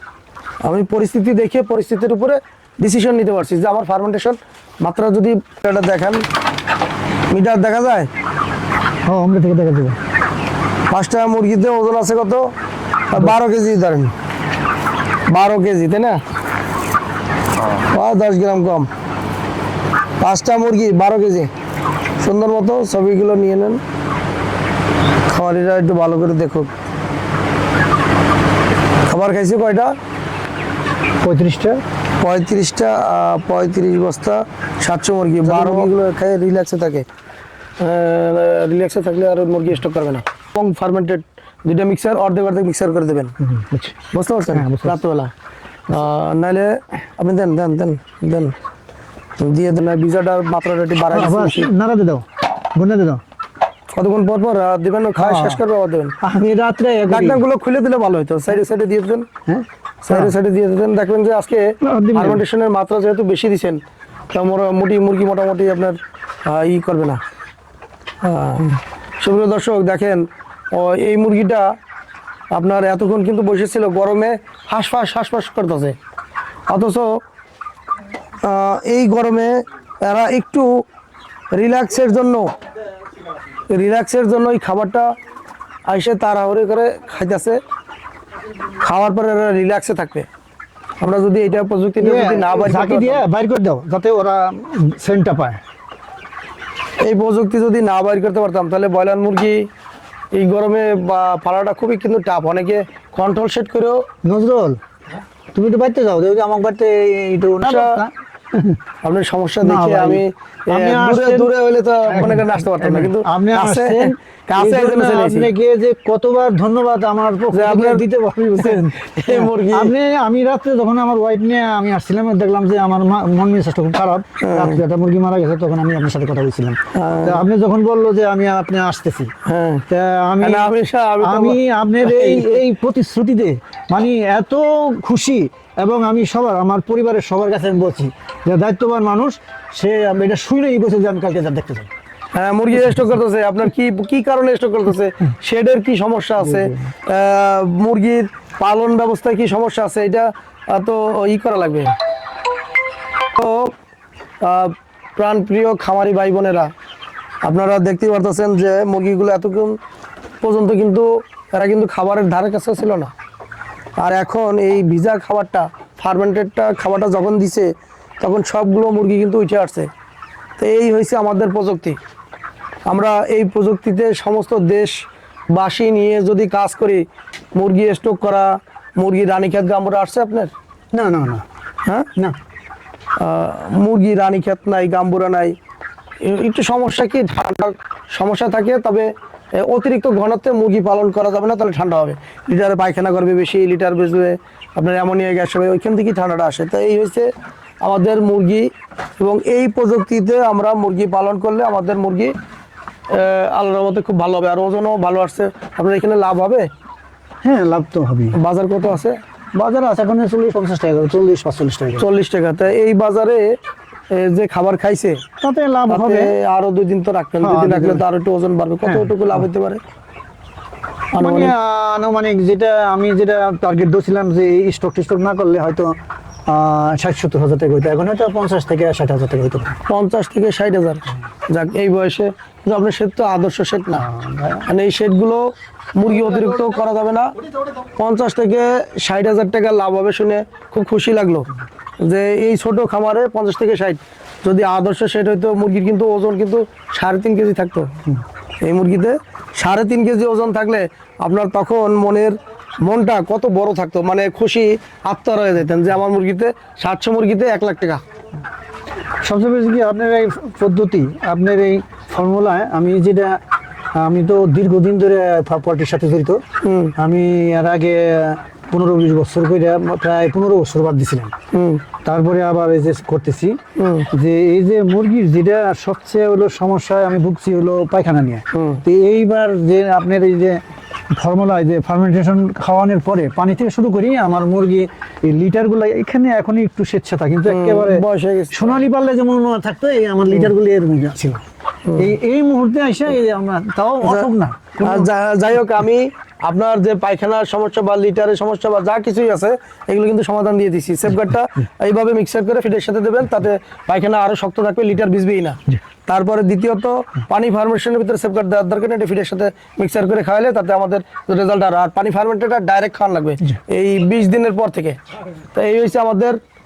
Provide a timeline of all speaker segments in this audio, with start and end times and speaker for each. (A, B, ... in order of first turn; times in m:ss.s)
0:00.6-0:06.2 A
0:07.3-0:08.1 A
0:09.0-0:10.0 B
0:10.9-0:12.5 A
0:13.1-0:14.1 A
0:15.3-0:16.2 A
0:17.7-0:18.9 A
0:20.2-0:21.5 A
0:22.2-0:23.8 A
0:25.3-0:26.7 A
0:29.1-0:29.9 A
0:31.2-0:31.8 B
0:32.2-0:37.0 A
0:35.4-0:35.9 B
0:37.8-0:43.3 A
0:43.4-0:43.9 B
0:44.1-0:45.3 A
0:44.5-0:45.0 B
0:45.9-0:48.5 A
0:49.4-0:51.7 A
0:51.1-0:53.2 B
0:53.9-0:56.2 A
0:55.2-0:55.6 B
0:56.2-0:57.4 B
0:57.1-0:59.2 A
0:59.4-1:00.3 B
1:00.0-1:03.8 A
1:01.8-1:02.4 B
1:04.3-1:07.2 A
1:08.2-1:11.7 A
1:12.5-1:16.0 A
1:16.7-1:17.2 A
1:18.4-1:20.8 A
1:21.5-1:22.5 A
1:23.7-1:25.1 A
1:25.9-1:27.6 A
1:28.8-1:30.3 A
1:31.0-1:33.2 A
1:32.0-1:35.6 B
1:37.0-1:39.6 A
1:40.3-1:44.0 A
1:44.2-1:44.8 B
1:45.5-1:48.8 B
1:47.6-1:48.0 A
1:49.0-1:55.5 A
1:49.6-1:51.5 B
1:52.0-2:09.3 B
1:57.5-1:58.0 A
1:58.6-1:59.9 A
2:04.4-2:04.8 A
2:06.9-2:07.4 A
2:09.4-2:09.8 A
2:09.9-2:21.9 B
2:10.4-2:12.6 A
2:22.3-2:31.9 A
2:26.4-2:26.8 B
2:33.3-2:33.7 A
2:34.4-2:36.7 A
2:37.4-2:39.8 A
2:40.4-2:43.1 A
2:44.0-2:47.7 A
2:48.2-2:49.9 A
2:50.6-2:52.0 A
2:52.9-2:54.9 A
2:55.5-2:57.0 A
2:57.5-3:00.5 A
3:00.9-3:01.4 B
3:03.2-3:05.5 A
3:06.2-3:17.3 A
3:17.8-3:18.7 A
3:19.2-3:22.3 A
3:23.1-3:26.7 A
3:27.4-3:28.4 B
3:28.3-3:29.2 A
3:29.5-3:32.1 B
3:32.0-3:33.6 A
3:34.1-3:35.2 A
3:35.4-3:36.3 B
3:35.9-3:39.8 A
3:37.4-3:38.0 B
3:38.8-3:39.5 B
3:41.1-3:41.5 A
3:41.2-3:45.9 B
3:46.5-3:49.7 B
3:49.9-3:54.0 A
3:53.9-3:54.7 B
3:54.6-4:01.5 A
4:02.0-4:07.9 A
4:08.6-4:18.0 A
4:19.2-4:23.4 B
4:24.0-4:26.4 B
4:26.6-4:26.9 A
4:27.0-4:31.3 B
4:31.5-4:31.8 A
4:32.0-4:33.6 B
4:33.8-4:34.1 A
4:34.1-4:40.6 B
4:38.5-4:38.8 A
4:41.2-4:51.4 B
4:47.4-4:48.8 A
4:51.8-4:52.1 A
4:52.0-4:55.1 B
4:54.8-5:15.0 A
5:15.5-5:16.4 A